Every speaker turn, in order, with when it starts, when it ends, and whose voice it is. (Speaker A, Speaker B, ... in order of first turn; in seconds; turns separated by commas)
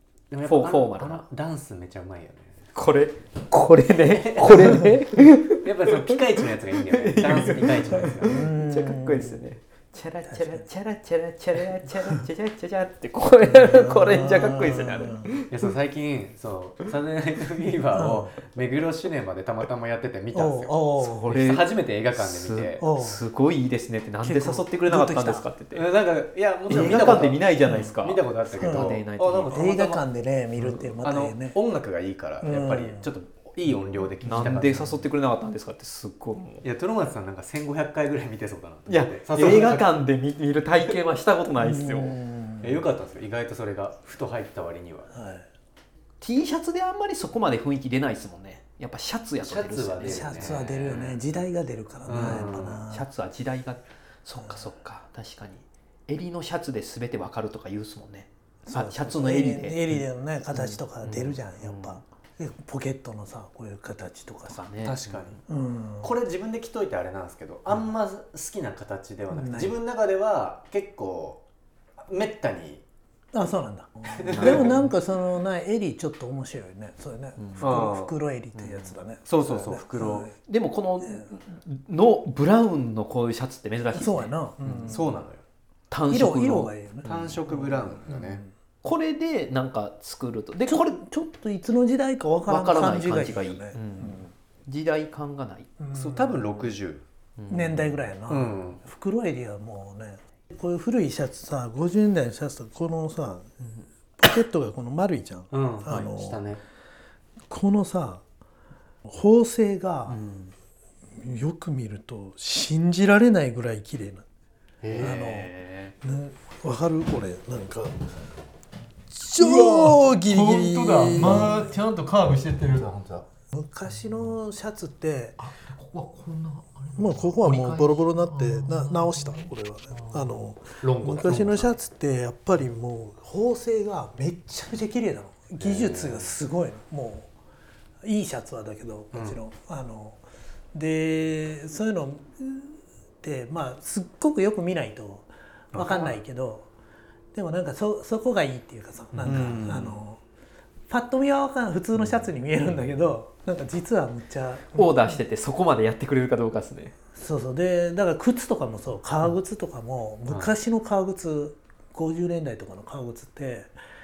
Speaker A: 0.3-2.6, Speaker B: 0.4-1.3, Speaker B: 2.7-6.2, Speaker A: 4.1-8.6, Speaker B: 6.8-15.5, Speaker C: 8.3-9.4, Speaker C: 10.3-10.7, Speaker C: 13.4-15.3, Speaker A: 15.5-22.8, Speaker C: 17.9-18.3, Speaker C: 20.3-21.2, Speaker B: 20.9-25.9, Speaker C: 22.8-23.2, Speaker C: 24.2-25.5, Speaker A: 25.7-30.0, Speaker B: 26.7-29.7, Speaker C: 27.6-27.9, Speaker C: 28.6-31.6, Speaker B: 30.6-30.9, Speaker A: 31.0-35.0, Speaker C: 32.4-33.1, Speaker B: 34.2-36.7, Speaker A: 36.6-40.0, Speaker B: 38.9-42.2, Speaker C: 41.6-42.8, Speaker A: 42.6-45.1, Speaker C: 45.1-45.5, Speaker B: 46.2-51.2, Speaker A: 49.4-50.7, Speaker C: 50.0-53.1, Speaker A: 52.1-52.9, Speaker B: 52.1-61.0, Speaker C: 54.4-54.7, Speaker C: 58.7-64.7, Speaker A: 61.0-61.3, Speaker B: 61.6-62.0, Speaker B: 64.5-65.1, Speaker A: 64.8-65.4, Speaker C: 65.5-66.1, Speaker A: 66.0-71.4, Speaker C: 69.3-69.8, Speaker A: 72.1-72.8, Speaker C: 73.3-80.4, Speaker A: 74.0-74.7, Speaker B: 74.3-74.9, Speaker B: 77.4-77.8, Speaker A: 77.6-78.1, Speaker B: 78.5-78.9, Speaker A: 79.2-80.3, Speaker B: 80.4-85.0, Speaker C: 81.0-81.3, Speaker C: 83.9-85.1, Speaker A: 84.8-85.4, Speaker B: 85.9-87.4, Speaker C: 86.1-88.5, Speaker A: 87.0-88.4, Speaker B: 88.8-91.0, Speaker C: 90.7-94.3, Speaker B: 92.5-95.8, Speaker C: 95.8-96.5, Speaker A: 95.9-97.0, Speaker B: 97.4-98.1, Speaker C: 97.5-103.5, Speaker A: 98.3-98.8, Speaker C: 104.2-106.5, Speaker A: 105.5-106.6, Speaker C: 107.5-108.2, Speaker C: 109.1-110.2, Speaker C: 111.2-114.2, Speaker A: 114.8-115.3, Speaker B: 115.0-116.0, Speaker C: 115.0-118.1, Speaker C: 119.1-121.7, Speaker B: 119.3-120.2, Speaker A: 120.3-123.3, Speaker B: 121.2-121.9, Speaker C: 123.5-125.4, Speaker B: 123.9-124.4, Speaker B: 125.4-131.7, Speaker C: 127.0-137.3, Speaker A: 135.6-136.3, Speaker C: 138.0-140.2, Speaker A: 139.1-139.4, Speaker C: 140.7-146.7, Speaker A: 145.7-146.2, Speaker C: 147.3-150.2, Speaker A: 149.2-150.0, Speaker C: 150.9-155.2, Speaker B: 154.7-157.0, Speaker C: 157.1-163.7, Speaker A: 160.3-160.6